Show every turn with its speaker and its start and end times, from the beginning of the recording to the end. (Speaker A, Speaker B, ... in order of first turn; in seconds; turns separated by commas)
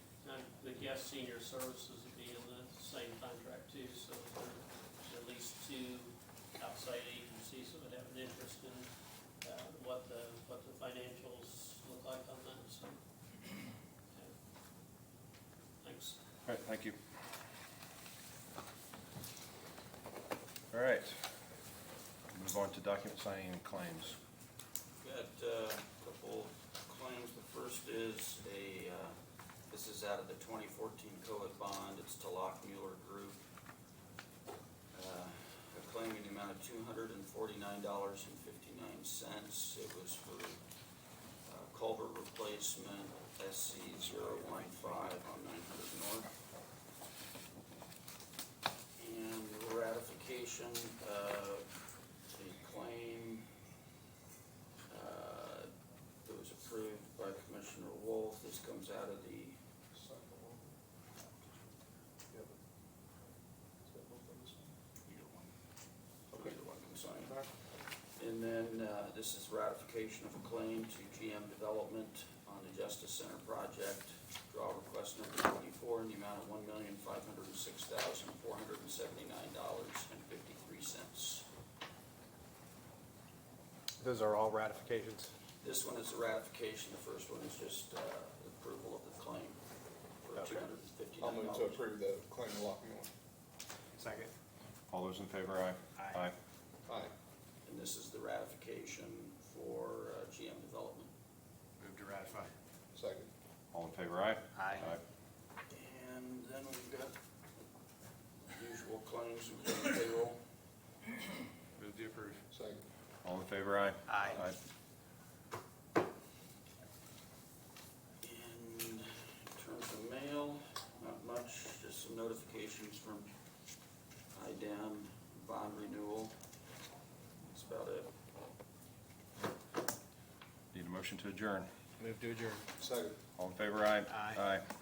Speaker A: 0.2-8.9, Speaker A: 9.4-14.3, Speaker A: 15.8-16.2, Speaker B: 16.4-17.0, Speaker B: 20.7-21.1, Speaker B: 22.3-24.2, Speaker C: 25.0-29.1, Speaker C: 29.7-33.4, Speaker C: 34.9-40.6, Speaker C: 41.4-46.3, Speaker D: 44.0-45.0, Speaker C: 49.0-51.7, Speaker C: 52.3-53.5, Speaker C: 54.9-55.7, Speaker C: 56.2-59.6, Speaker E: 59.9-60.8, Speaker E: 62.3-62.6, Speaker E: 63.8-64.7, Speaker C: 65.0-65.5, Speaker C: 66.3-81.5, Speaker E: 66.3-66.6, Speaker E: 67.1-67.5, Speaker D: 84.0-85.3, Speaker C: 85.6-89.6, Speaker C: 90.2-91.8, Speaker E: 91.2-93.1, Speaker D: 94.0-94.3, Speaker B: 94.9-96.3, Speaker D: 96.0-96.2, Speaker E: 96.9-97.1, Speaker C: 97.7-101.1, Speaker D: 101.8-102.5, Speaker E: 102.9-103.3, Speaker B: 103.7-105.0, Speaker D: 104.5-105.0, Speaker C: 105.7-107.2, Speaker C: 108.5-110.4, Speaker D: 111.8-112.4, Speaker E: 112.5-112.8, Speaker B: 113.2-114.5, Speaker D: 114.1-114.4, Speaker C: 118.2-123.3, Speaker C: 124.3-126.3, Speaker C: 127.4-128.1, Speaker B: 130.7-131.7, Speaker D: 132.0-132.7, Speaker E: 132.8-133.2, Speaker B: 133.3-134.7, Speaker D: 134.1-134.4